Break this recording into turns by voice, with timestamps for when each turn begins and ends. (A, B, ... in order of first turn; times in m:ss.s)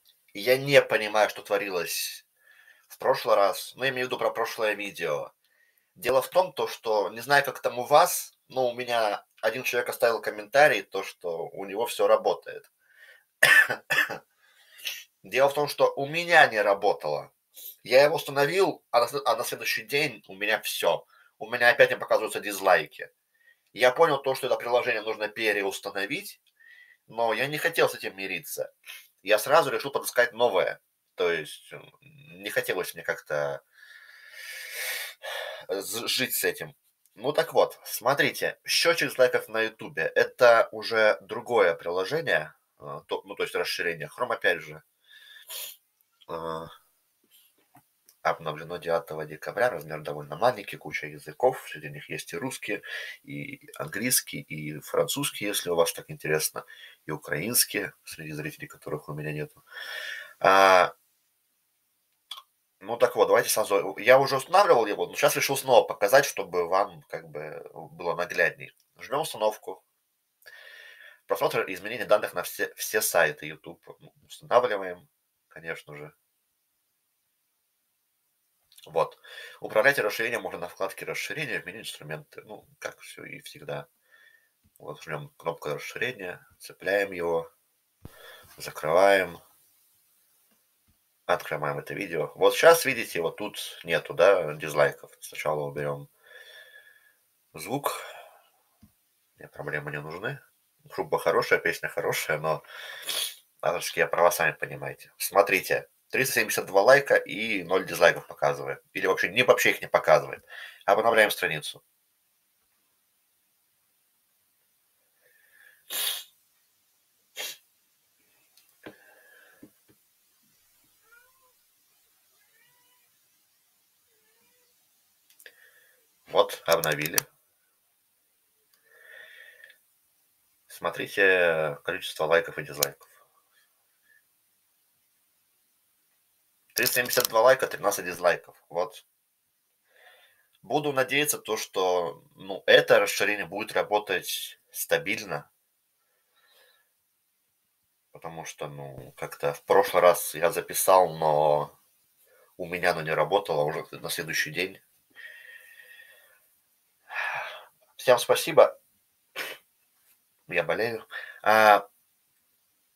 0:00.3-0:02.2 A
0:02.9-0:05.3 A
0:06.0-0:12.7 A
0:13.4-0:14.2 A
0:15.2-0:17.3 A
0:17.8-0:23.1 A
0:23.7-0:26.4 A
0:27.1-0:28.7 A
0:29.2-0:33.6 A
0:35.7-0:44.8 A
0:46.3-0:46.7 A
0:48.2-0:59.6 A
1:00.4-1:00.9 A
1:02.8-1:09.8 A
1:11.3-1:16.1 A
1:18.9-1:23.9 A
1:24.8-1:27.5 A
1:28.6-1:29.4 A
1:31.3-1:36.1 A
1:37.5-1:38.0 A
1:39.4-1:51.8 A
2:06.3-2:07.2 A
2:10.7-2:13.1 A
2:16.8-2:19.0 A
2:20.6-2:25.5 A
2:28.1-2:31.7 A
2:32.6-2:34.8 A
2:38.0-2:38.8 A
2:40.5-2:41.8 A